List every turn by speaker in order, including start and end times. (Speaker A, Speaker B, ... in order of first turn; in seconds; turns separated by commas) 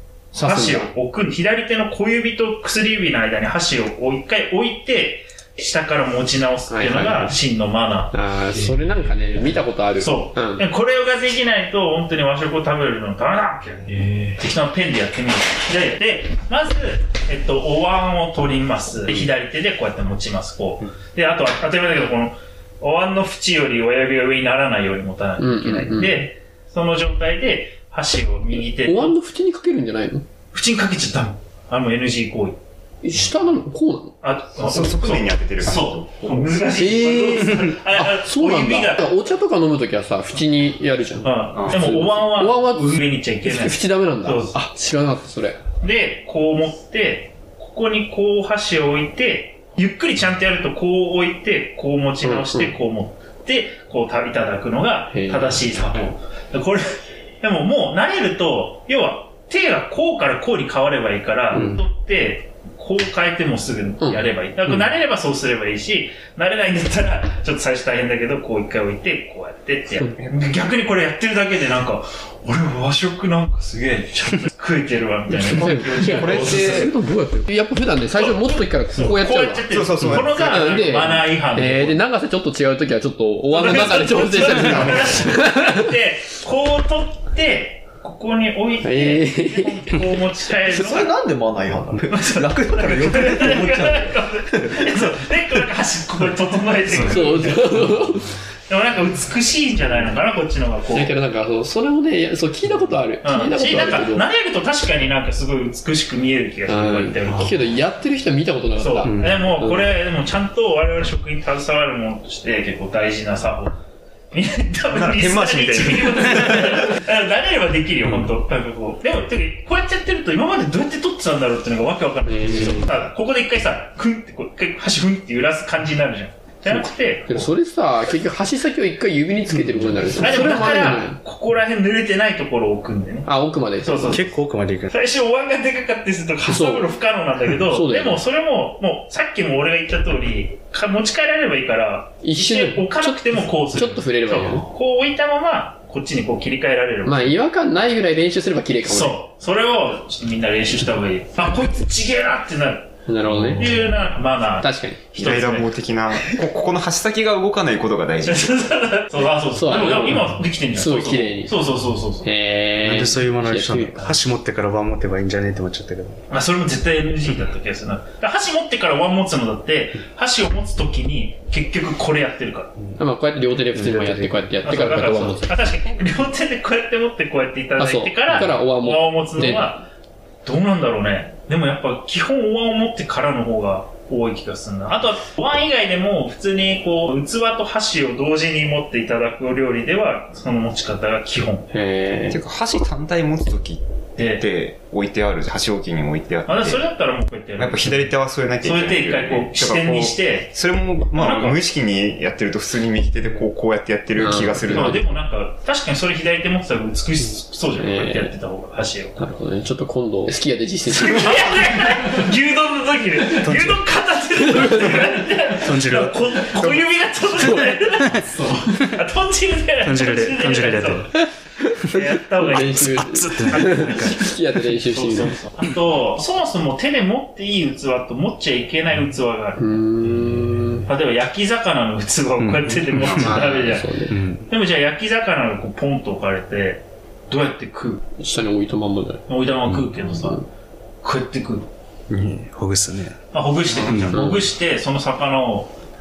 Speaker A: 0.3-8.8, Speaker B: 0.3-0.9, Speaker B: 6.7-7.3, Speaker B: 8.1-10.7, Speaker A: 10.0-29.2, Speaker B: 25.4-26.2, Speaker B: 28.7-30.2, Speaker A: 30.5-32.6, Speaker B: 33.0-34.1, Speaker A: 34.2-39.2, Speaker C: 34.5-36.8, Speaker B: 36.7-45.6, Speaker A: 41.2-44.6, Speaker C: 41.5-41.9, Speaker A: 45.8-76.9, Speaker B: 52.2-52.7, Speaker B: 55.1-55.6, Speaker B: 61.5-61.8, Speaker C: 75.3-76.9, Speaker B: 75.5-79.6, Speaker A: 78.1-82.0, Speaker C: 79.7-81.0, Speaker B: 80.2-85.8, Speaker A: 83.5-91.2, Speaker C: 84.5-85.2, Speaker B: 88.8-90.1, Speaker D: 90.7-94.9, Speaker A: 92.1-98.0, Speaker E: 96.9-97.3, Speaker B: 97.0-98.3, Speaker A: 98.7-101.1, Speaker B: 100.9-104.2, Speaker A: 103.2-107.6, Speaker B: 106.7-109.9, Speaker A: 108.8-113.8, Speaker E: 109.0-109.5, Speaker A: 114.3-127.5, Speaker C: 114.9-117.0, Speaker B: 122.3-122.8, Speaker B: 127.3-131.2, Speaker E: 129.5-130.3, Speaker A: 130.2-133.3, Speaker B: 133.2-134.2, Speaker A: 133.8-134.2, Speaker E: 134.1-134.9, Speaker A: 134.9-147.4, Speaker B: 136.4-136.9, Speaker B: 137.7-138.2, Speaker B: 142.2-144.7, Speaker B: 147.0-149.2, Speaker A: 148.8-152.9, Speaker B: 153.1-153.8, Speaker A: 153.4-155.7, Speaker B: 154.6-155.0, Speaker C: 155.1-158.7, Speaker A: 158.2-162.3, Speaker B: 159.5-161.5, Speaker B: 162.2-164.2, Speaker E: 162.8-166.2, Speaker A: 166.3-172.7, Speaker B: 172.9-175.5, Speaker E: 173.7-174.6, Speaker A: 174.6-179.8, Speaker B: 177.8-179.7, Speaker A: 180.4-191.7, Speaker B: 191.7-192.4, Speaker C: 192.3-196.9, Speaker A: 194.2-194.4, Speaker A: 196.5-200.6, Speaker C: 197.6-205.0, Speaker A: 201.1-201.6, Speaker B: 204.2-205.0, Speaker A: 204.7-209.3, Speaker B: 207.8-208.3, Speaker B: 209.2-211.5, Speaker A: 210.9-221.1, Speaker E: 213.4-213.8, Speaker E: 215.6-216.8, Speaker E: 219.8-221.1, Speaker A: 221.9-229.8, Speaker B: 222.4-225.3, Speaker E: 222.6-224.2, Speaker B: 229.6-230.9, Speaker A: 230.8-238.0, Speaker E: 232.4-233.4, Speaker B: 233.0-234.1, Speaker E: 234.1-234.5, Speaker B: 238.2-239.2, Speaker A: 239.3-240.4, Speaker B: 240.0-240.4, Speaker A: 241.0-241.7, Speaker E: 242.1-243.2, Speaker A: 243.3-245.7, Speaker E: 243.8-244.4, Speaker B: 244.1-244.4